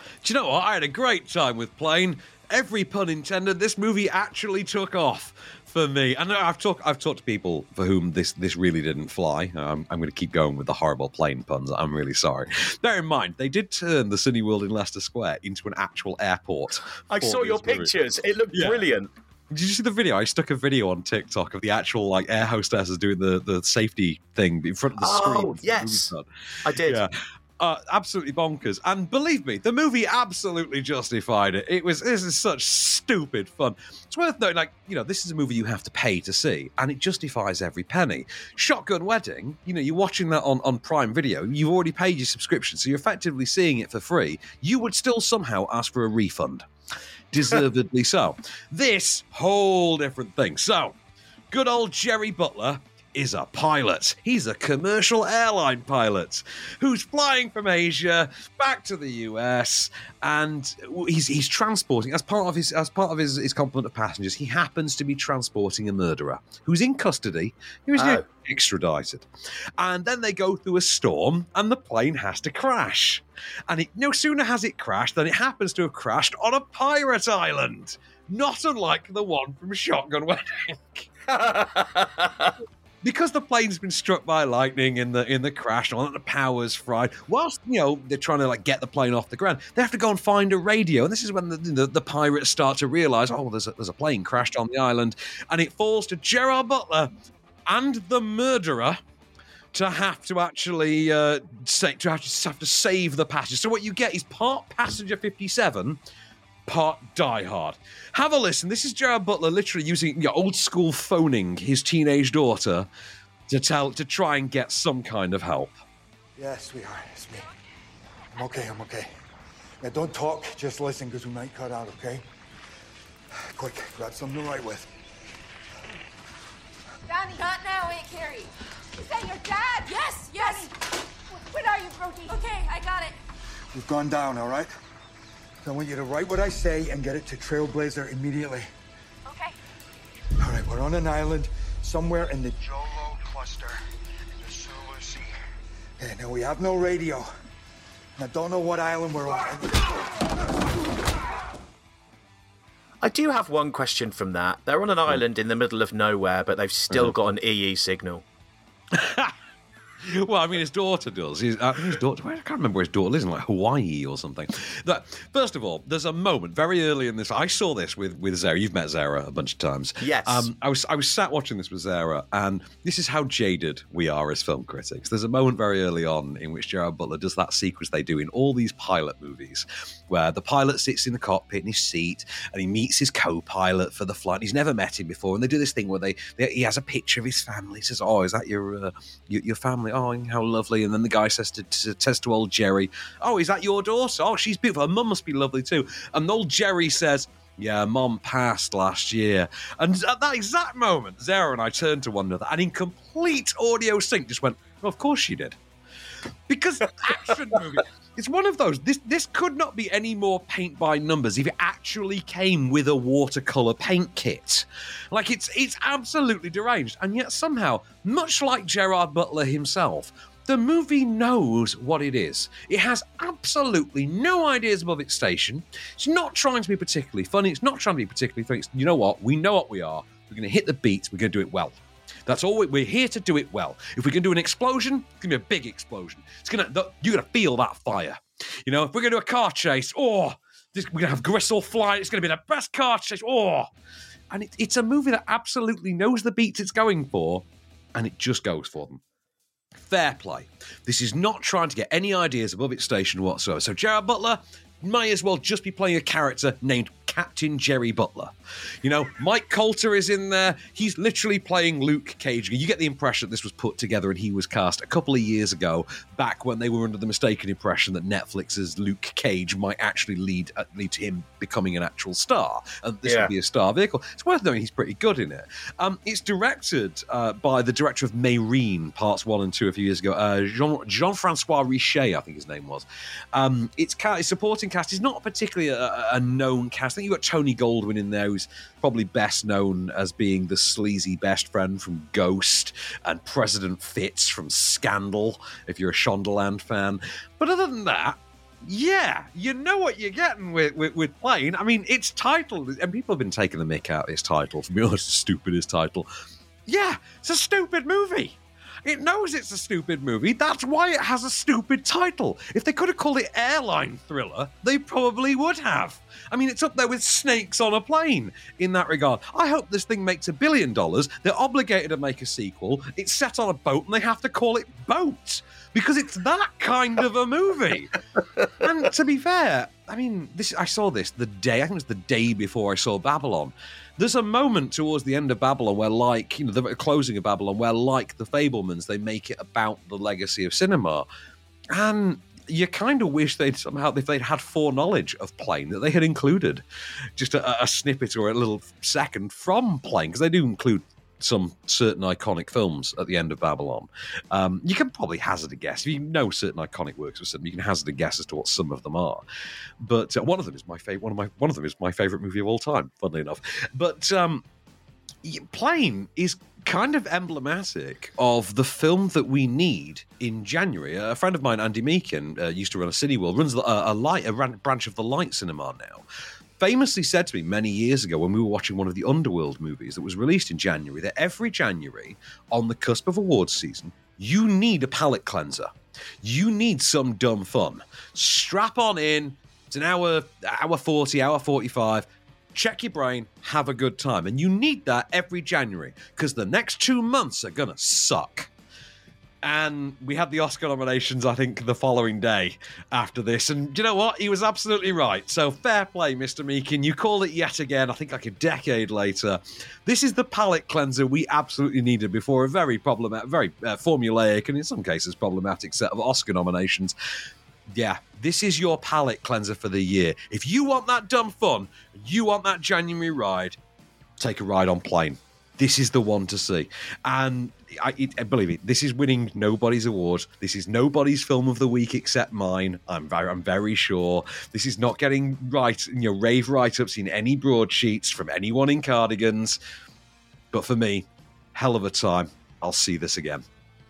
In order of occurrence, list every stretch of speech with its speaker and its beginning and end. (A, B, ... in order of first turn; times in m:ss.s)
0:00.2-0:17.9 A
0:17.1-0:19.1 B
0:18.5-0:18.8 A
0:19.5-0:46.6 A
0:25.0-0:26.1 B
0:26.6-0:27.0 B
0:47.3-0:51.0 A
0:51.5-1:21.1 A
1:08.0-1:08.2 B
1:21.3-1:22.5 B
1:23.0-1:37.1 A
1:37.7-1:39.0 A
1:39.7-1:46.0 A
1:46.7-1:52.9 A
1:53.5-1:55.8 A
1:56.4-1:57.5 C
1:58.3-1:59.1 C
1:59.8-2:02.2 C
2:03.5-2:04.9 C
2:07.1-2:10.7 D
2:11.3-2:13.2 D
2:13.7-2:14.7 C
2:15.6-2:18.7 C
2:19.3-2:19.5 D
2:20.4-2:23.8 C
2:24.4-2:25.3 C
2:26.0-2:27.3 C
2:28.2-2:29.9 C
2:33.0-2:38.2 B
2:38.9-2:39.3 A
2:40.0-3:25.6 A
2:50.0-2:50.5 B
3:26.5-4:03.7 A
4:04.3-4:09.0 A
4:09.8-5:06.1 A
4:33.0-4:33.3 B
5:06.6-5:28.0 A
5:28.6-5:41.1 A
5:41.7-5:46.6 A
5:47.2-5:59.2 A
5:59.8-6:04.4 A
6:05.2-6:16.0 A
6:16.6-6:25.7 A
6:26.2-6:38.5 A
6:39.4-6:56.9 A
6:57.7-7:03.6 A
7:04.2-7:19.6 A
7:20.5-7:23.4 A